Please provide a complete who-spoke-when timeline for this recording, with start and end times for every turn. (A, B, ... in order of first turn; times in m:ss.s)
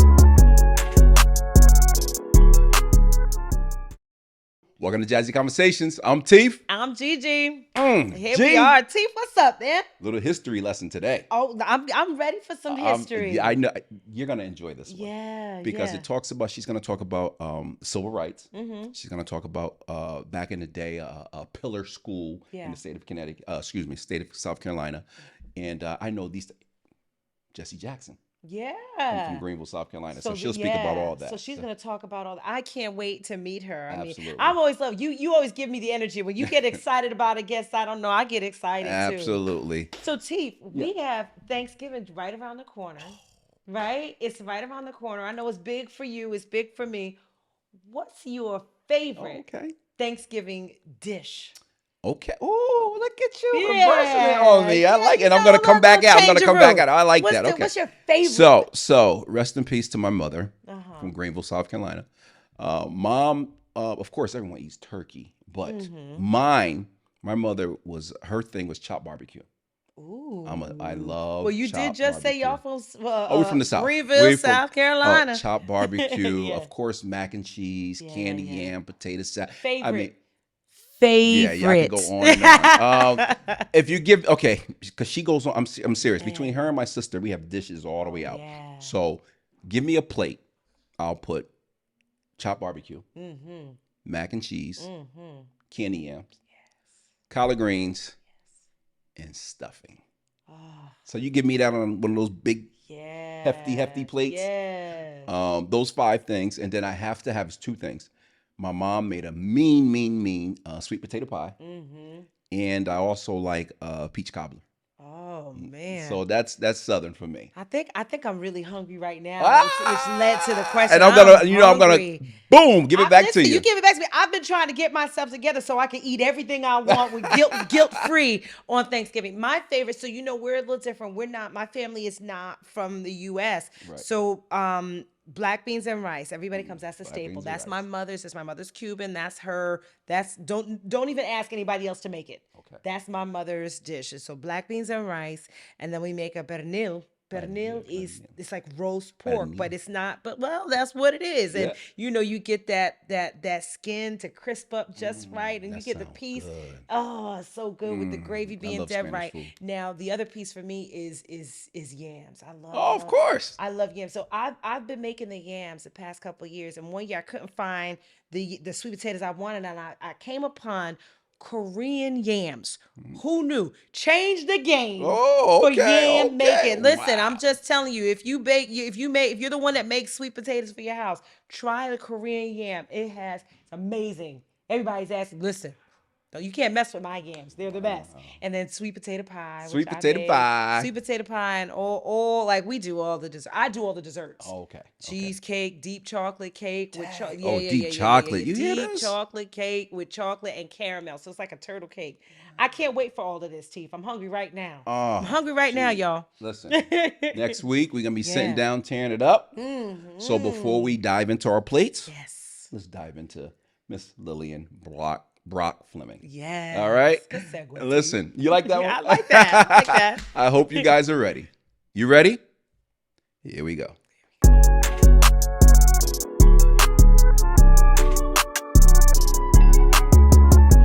0:04.8-0:06.6 A
0:06.7-0:09.9 B
0:07.8-0:08.8 A
0:10.0-0:11.2 A
0:11.3-0:13.6 B
0:12.7-0:15.1 A
0:14.9-0:16.1 B
0:15.6-0:25.0 A
0:18.5-0:18.9 B
0:22.5-0:22.8 B
0:25.6-0:26.5 A
0:27.5-0:28.2 A
0:28.4-0:29.4 B
0:29.1-0:31.6 A
0:30.1-0:47.2 B
0:33.9-0:34.6 A
0:36.4-0:36.8 A
0:38.8-0:39.9 A
0:47.8-0:51.6 B
0:49.2-0:49.8 A
0:52.0-1:02.0 A
0:53.5-0:58.7 B
1:00.6-1:01.1 B
1:02.6-1:09.4 A
1:05.6-1:06.3 B
1:10.0-1:16.7 B
1:10.4-1:12.6 A
1:13.3-1:20.1 A
1:18.0-1:18.8 B
1:19.5-1:20.1 B
1:21.0-1:23.6 B
1:21.2-1:30.4 A
1:26.0-1:26.7 B
1:28.1-1:28.9 B
1:31.0-1:31.5 A
1:32.4-1:33.0 A
1:33.1-1:33.8 B
1:34.0-1:34.9 A
1:34.8-1:35.6 B
1:35.7-1:36.3 A
1:37.3-1:38.2 A
1:39.2-1:40.0 A
1:40.5-1:41.0 B
1:41.1-1:42.7 A
1:42.8-1:45.3 B
1:43.4-1:44.5 A
1:45.3-1:51.6 A
1:51.6-1:52.3 B
1:52.5-1:54.6 A
1:55.0-1:56.2 B
1:55.6-1:57.5 A
1:57.5-2:02.4 B
1:59.4-2:03.6 A
2:02.9-3:05.8 B
2:06.9-2:08.1 A
2:13.8-2:14.1 A
2:16.5-2:17.8 A
2:22.6-2:22.8 A
2:27.3-2:28.3 A
2:29.2-2:29.7 A
2:31.5-2:31.8 A
2:35.0-2:36.8 A
2:37.8-2:39.5 A
2:42.7-2:43.6 A
2:55.0-2:57.4 A
3:06.3-3:27.6 B
3:07.6-3:08.4 A
3:09.6-3:10.9 A
3:14.4-3:15.3 A
3:16.9-3:19.2 A
3:24.8-3:26.8 A
3:27.3-3:29.5 A
3:28.2-3:28.6 B
3:29.5-3:31.0 B
3:30.2-3:32.1 A
3:32.1-3:32.7 B
3:32.7-3:36.2 A
3:36.2-3:40.9 B
3:36.7-3:42.4 A
3:43.4-3:44.0 A